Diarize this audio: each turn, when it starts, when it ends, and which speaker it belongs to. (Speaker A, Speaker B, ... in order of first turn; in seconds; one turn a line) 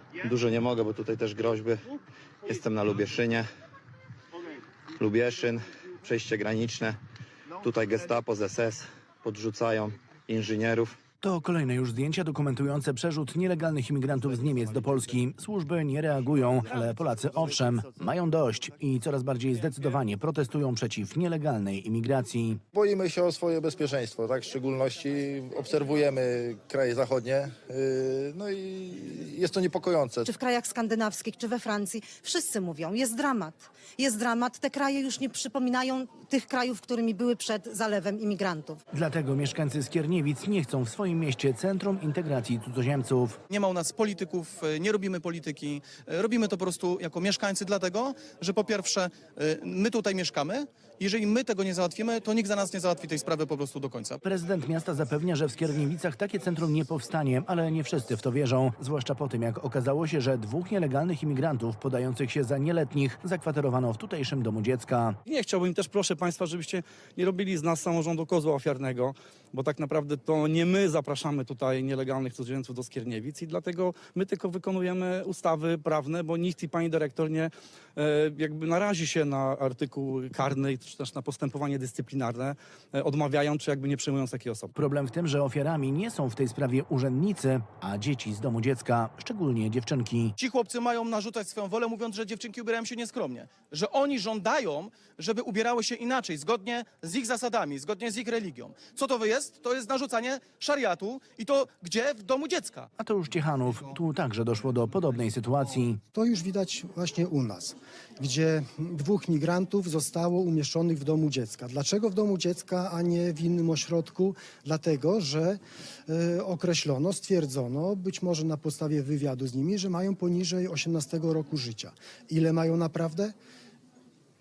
Speaker A: 0.2-1.8
Speaker A: 2.4-3.5
Speaker A: 4.9-7.0
Speaker A: 7.6-10.9
Speaker B: 11.2-22.6
Speaker C: 22.7-30.3
Speaker D: 30.2-38.8
Speaker B: 38.9-43.4
Speaker E: 43.5-54.2
Speaker B: 54.2-65.2
Speaker F: 65.2-84.7
Speaker B: 84.7-90.3
Speaker E: 90.4-102.9
Speaker B: 103.0-106.0
Speaker G: 106.1-123.3